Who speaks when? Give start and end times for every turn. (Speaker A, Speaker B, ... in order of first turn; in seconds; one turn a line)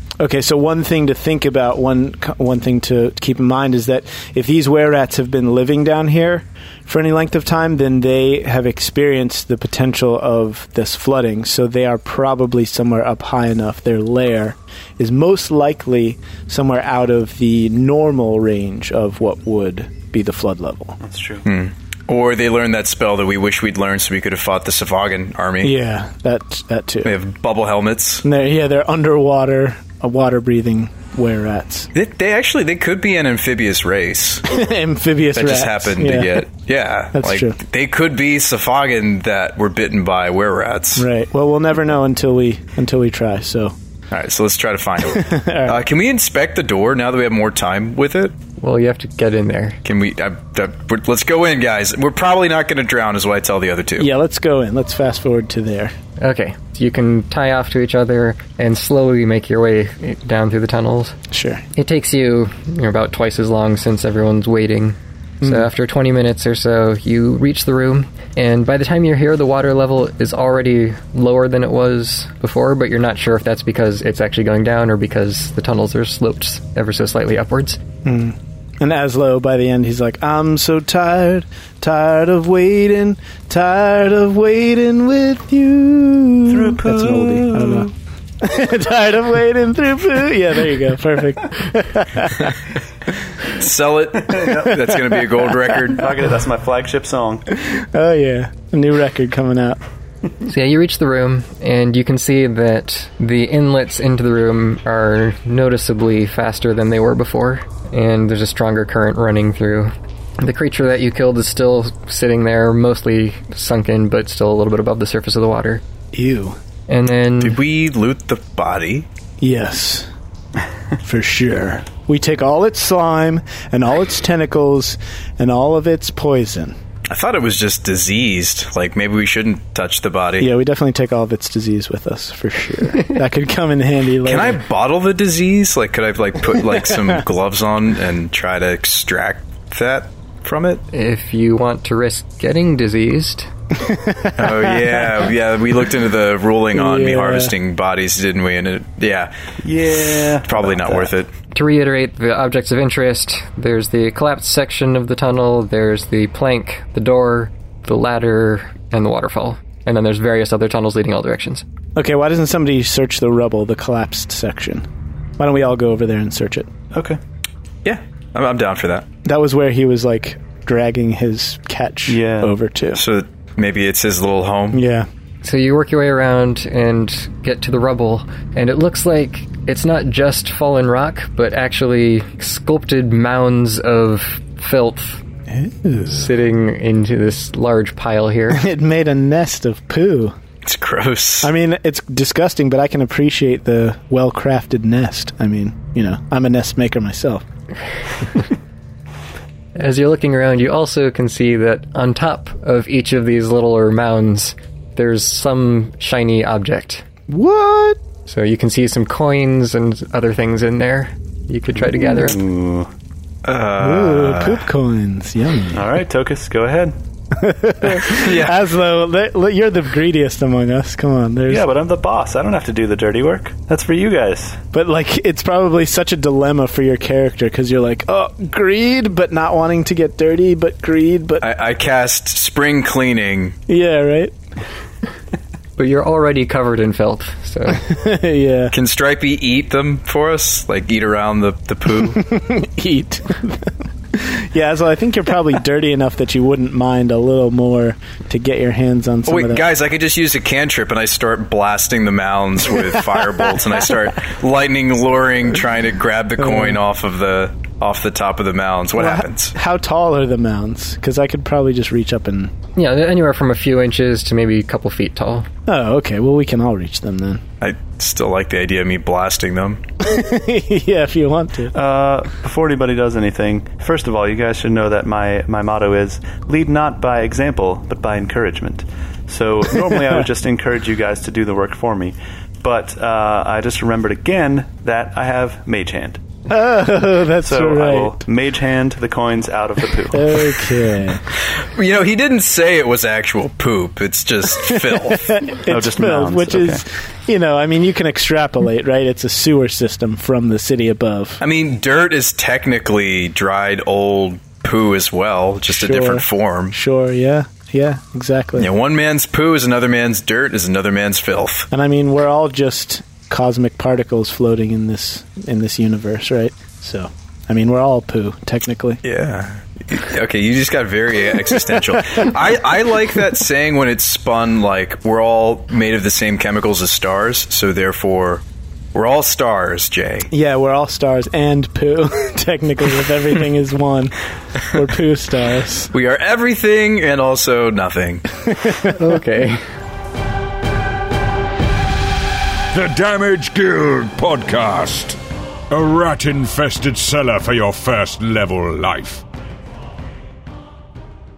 Speaker A: 0.2-21.0
Speaker B: 21.0-21.5
Speaker C: 21.4-25.7
Speaker A: 25.6-27.1
Speaker C: 27.0-28.2
Speaker A: 28.2-31.9
Speaker C: 31.9-34.4
Speaker A: 34.5-36.5
Speaker C: 35.3-41.1
Speaker A: 37.1-37.6
Speaker A: 41.0-43.7
Speaker C: 44.1-48.4
Speaker A: 45.0-45.8
Speaker D: 48.6-49.8
Speaker C: 49.8-54.1
Speaker A: 54.0-56.0
Speaker D: 56.2-61.2
Speaker A: 61.3-61.6
Speaker D: 61.8-77.8
Speaker A: 78.0-92.6
Speaker B: 86.5-87.9
Speaker C: 93.5-96.1
Speaker B: 94.2-94.8
Speaker A: 94.5-95.5
Speaker B: 95.9-97.5
Speaker A: 97.5-99.8
Speaker D: 100.5-115.8
Speaker A: 116.1-116.6
Speaker D: 116.9-117.6
Speaker C: 117.4-119.1
Speaker A: 119.4-120.1
Speaker A: 121.0-126.8
Speaker C: 127.1-130.5
Speaker A: 130.4-134.6
Speaker C: 134.2-140.8
Speaker A: 136.7-137.2
Speaker D: 140.9-143.5
Speaker A: 143.8-145.1
Speaker C: 144.4-149.3
Speaker A: 146.7-147.5
Speaker B: 149.6-151.1
Speaker C: 150.4-151.3
Speaker D: 151.5-161.6
Speaker A: 162.0-164.8
Speaker A: 165.4-166.7
Speaker B: 166.9-167.2
Speaker C: 167.8-169.1
Speaker A: 169.2-173.0
Speaker B: 172.1-172.5
Speaker C: 172.9-174.8
Speaker A: 174.7-175.1
Speaker D: 175.4-185.2
Speaker A: 185.5-186.3
Speaker D: 186.1-188.7
Speaker A: 188.5-190.3
Speaker C: 190.6-191.5
Speaker A: 191.4-197.4
Speaker D: 199.8-207.1
Speaker A: 207.3-208.0
Speaker D: 208.3-212.4
Speaker B: 212.0-212.9
Speaker C: 213.4-214.6
Speaker A: 213.8-215.9
Speaker B: 215.7-216.9
Speaker A: 217.3-221.7
Speaker C: 217.9-218.6
Speaker B: 221.5-224.6
Speaker A: 224.7-231.5
Speaker C: 231.4-233.6
Speaker A: 233.7-234.3
Speaker D: 235.8-237.9
Speaker A: 237.7-238.7
Speaker C: 238.7-242.2
Speaker A: 241.9-249.7
Speaker C: 249.3-259.5
Speaker A: 252.8-253.8
Speaker A: 256.4-256.8
Speaker A: 258.9-262.5
Speaker D: 262.8-265.5
Speaker A: 265.7-267.4
Speaker C: 267.6-269.8
Speaker A: 270.0-271.7
Speaker B: 271.7-286.2
Speaker A: 279.9-280.2
Speaker A: 286.5-288.2
Speaker B: 287.4-290.5
Speaker A: 290.1-291.2
Speaker C: 291.6-295.4
Speaker A: 294.5-301.4
Speaker B: 295.7-296.8
Speaker C: 301.4-306.8
Speaker A: 305.7-308.7
Speaker C: 308.6-311.7
Speaker A: 311.7-319.0
Speaker C: 319.0-330.3
Speaker A: 330.3-334.1
Speaker A: 334.7-335.9
Speaker C: 335.9-338.4
Speaker A: 338.7-338.9
Speaker D: 338.9-339.6
Speaker E: 342.7-345.2
Speaker E: 345.7-349.2